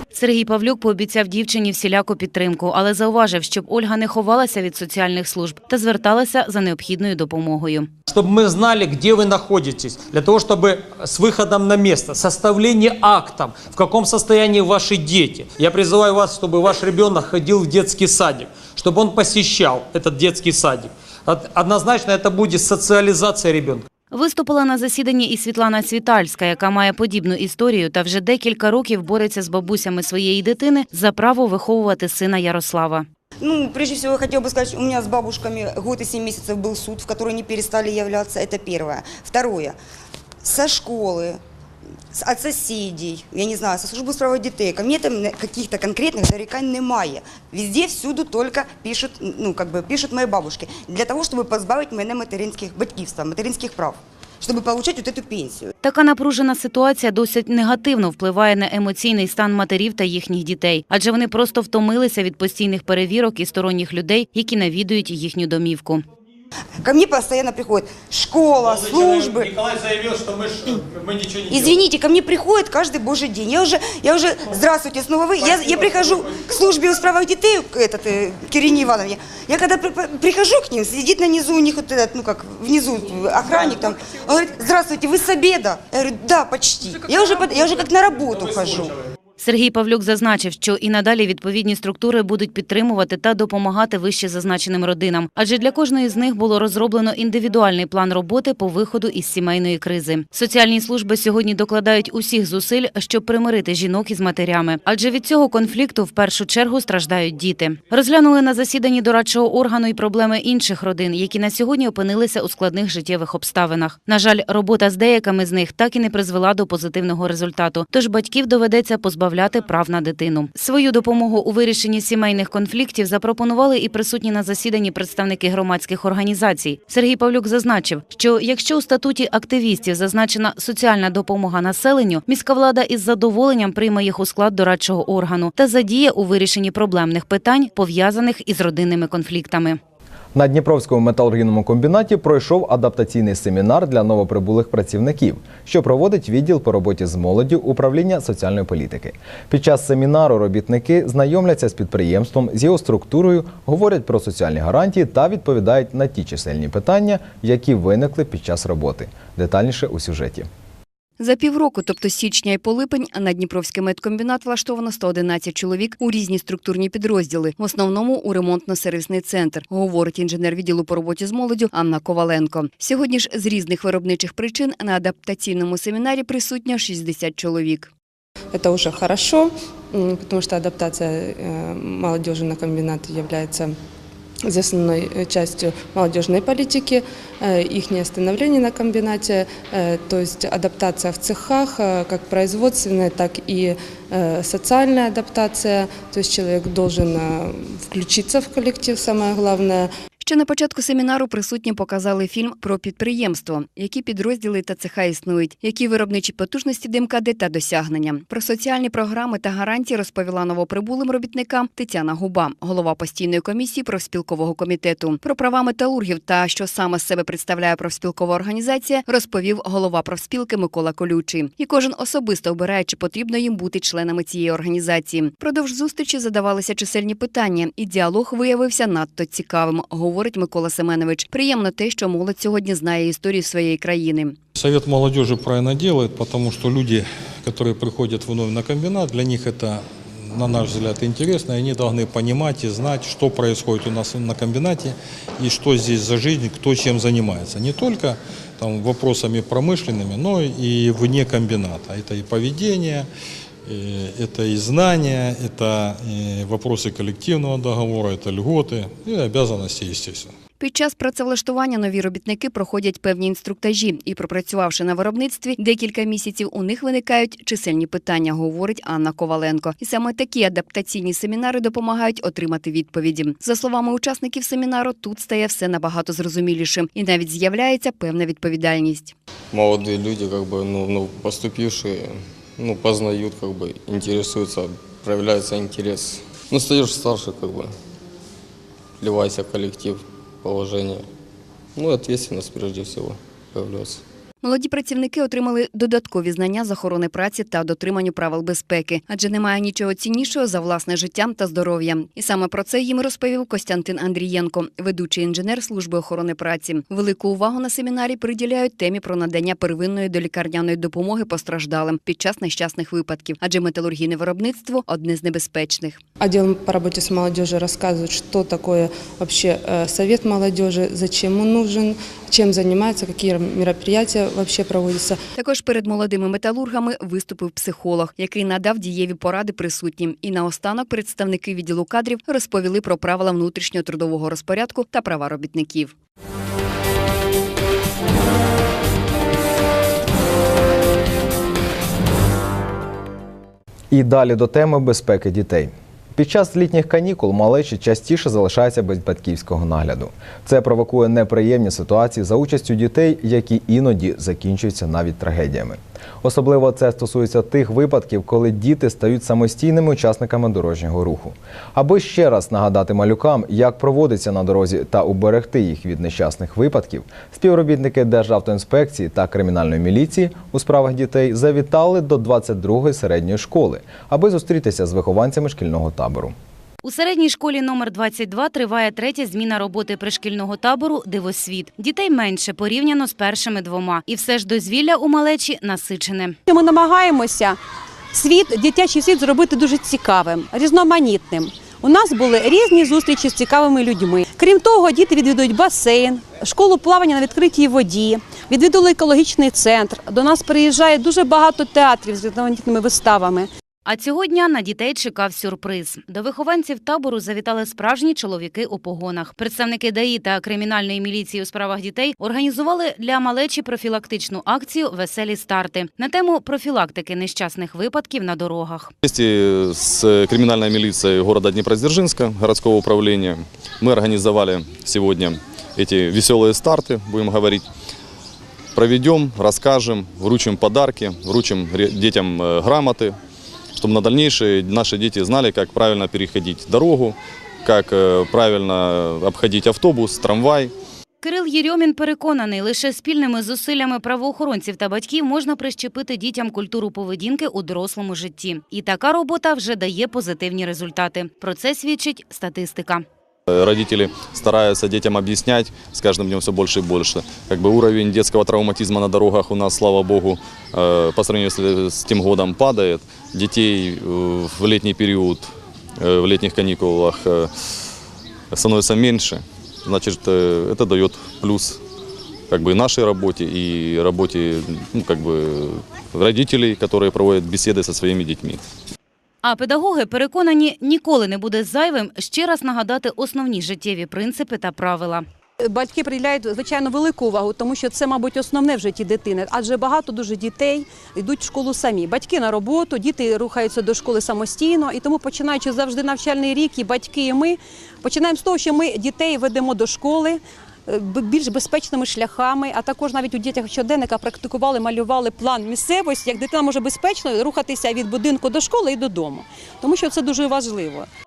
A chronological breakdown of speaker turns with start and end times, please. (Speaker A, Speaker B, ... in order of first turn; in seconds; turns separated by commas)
Speaker A: 0.1-7.9, Speaker B: 8.1-23.8, Speaker A: 24.1-33.0, Speaker C: 33.4-39.8, Speaker C: 40.4-41.4, Speaker C: 42.1-55.7, Speaker A: 55.8-66.0, Speaker C: 66.8-69.5, Speaker B: 68.7-71.7, Speaker C: 71.5-89.0, Speaker A: 89.4-139.8, Speaker D: 140.3-160.5, Speaker E: 161.2-177.9, Speaker F: 178.5-183.7, Speaker F: 184.5-199.8, Speaker E: 200.2-234.3, Speaker G: 234.6-253.1, Speaker G: 253.7-260.3, Speaker E: 260.6-279.1, Speaker H: 279.5-287.7, Speaker H: 289.0-291.0, Speaker H: 291.8-294.0, Speaker E: 294.4-316.0, Speaker F: 316.2-325.2, Speaker E: 325.4-335.9, Speaker D: 343.9-376.3, Speaker A: 376.8-386.4, Speaker I: 386.5-387.6, Speaker I: 388.1-403.5, Speaker A: 403.9-418.9, Speaker J: 419.0-427.7, Speaker J: 428.7-433.2, Speaker J: 433.8-440.7, Speaker A: 441.2-453.0, Speaker J: 453.5-467.5, Speaker J: 468.5-471.8, Speaker J: 472.5-478.6, Speaker A: 479.4-485.2, Speaker I: 485.7-511.1